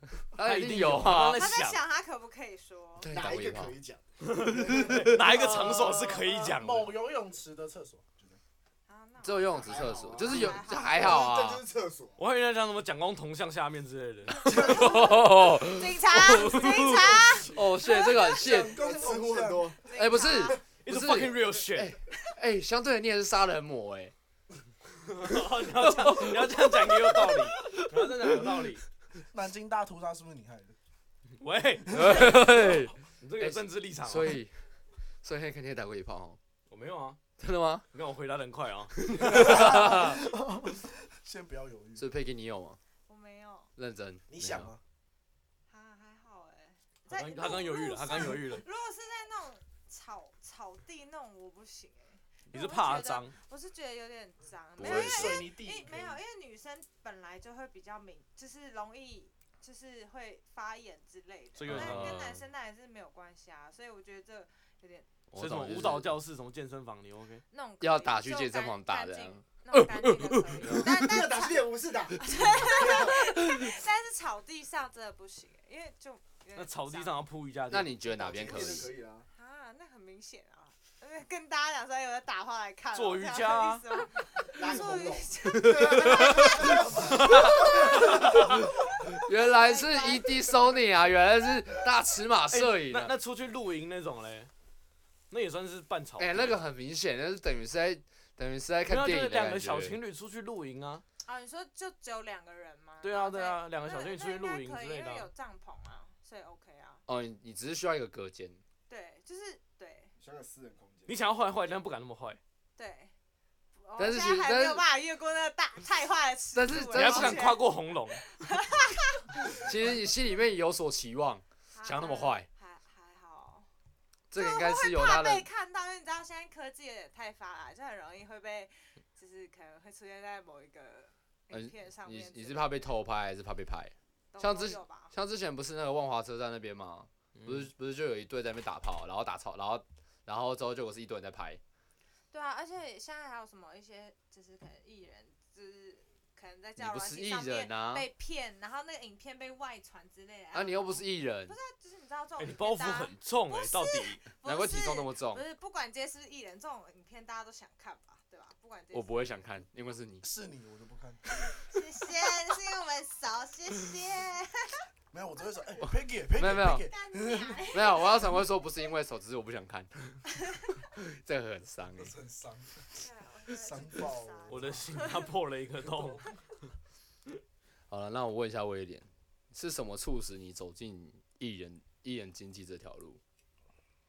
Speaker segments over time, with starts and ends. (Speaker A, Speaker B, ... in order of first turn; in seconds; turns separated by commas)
Speaker A: 0.2-1.5, Speaker B: 0.3-1.8, Speaker C: 1.2-3.1, Speaker A: 3.0-3.8, Speaker D: 3.1-5.8, Speaker B: 4.2-6.9, Speaker E: 5.1-8.4, Speaker C: 8.9-11.2, Speaker A: 9.2-11.6, Speaker D: 9.6-12.2, Speaker B: 12.2-14.8, Speaker A: 14.4-18.8, Speaker C: 14.5-18.4, Speaker E: 17.6-19.8, Speaker D: 18.6-20.6, Speaker C: 19.8-20.6, Speaker A: 19.9-24.1, Speaker B: 20.8-22.0, Speaker B: 25.0-28.8, Speaker A: 25.8-27.9, Speaker E: 29.2-30.8, Speaker B: 31.4-32.6, Speaker A: 31.9-34.6, Speaker E: 32.0-32.8, Speaker B: 33.2-34.4, Speaker A: 35.2-36.4, Speaker B: 36.7-37.2, Speaker A: 37.4-37.9, Speaker B: 37.9-39.7, Speaker A: 39.1-40.2, Speaker E: 39.2-42.1, Speaker A: 42.0-42.8, Speaker C: 43.1-43.7, Speaker A: 43.8-44.7, Speaker E: 44.3-44.8, Speaker C: 45.7-65.1, Speaker B: 47.1-48.6, Speaker B: 52.5-53.4, Speaker A: 54.8-55.5, Speaker E: 54.8-56.2, Speaker B: 61.5-62.2, Speaker A: 61.6-62.5, Speaker A: 65.3-66.1, Speaker B: 65.3-67.4, Speaker C: 67.5-77.2, Speaker A: 67.8-71.0, Speaker D: 70.9-73.3, Speaker B: 76.5-77.9, Speaker A: 77.7-78.9, Speaker D: 77.9-79.3, Speaker C: 79.3-90.5, Speaker B: 82.9-84.0, Speaker D: 84.4-88.7, Speaker A: 85.5-93.1, Speaker B: 92.5-94.5, Speaker B: 95.3-96.6, Speaker A: 96.2-100.0, Speaker B: 98.9-101.0, Speaker C: 101.2-107.0, Speaker B: 103.0-105.3, Speaker A: 107.1-108.6, Speaker C: 108.9-110.1, Speaker D: 110.2-111.2, Speaker B: 111.1-112.4, Speaker C: 112.8-113.1, Speaker C: 113.8-119.5, Speaker A: 114.0-114.8, Speaker A: 116.5-117.4, Speaker B: 116.7-118.2, Speaker A: 119.5-122.5, Speaker C: 121.7-123.7, Speaker A: 124.3-125.5, Speaker C: 124.3-132.9, Speaker A: 131.5-141.6, Speaker C: 134.3-135.1, Speaker B: 137.3-137.7, Speaker C: 142.3-159.2, Speaker A: 146.8-148.1, Speaker A: 150.5-151.5, Speaker B: 152.4-154.3, Speaker A: 154.4-155.4, Speaker A: 158.9-160.3, Speaker E: 160.2-161.7, Speaker C: 161.6-164.9, Speaker E: 165.1-167.7, Speaker C: 165.4-165.9, Speaker A: 165.8-166.9, Speaker C: 166.7-168.4, Speaker A: 167.7-170.2, Speaker C: 170.3-170.8, Speaker A: 170.9-172.1, Speaker E: 171.9-175.1, Speaker C: 172.9-175.3, Speaker B: 174.5-176.3, Speaker E: 175.8-176.3, Speaker A: 177.9-183.2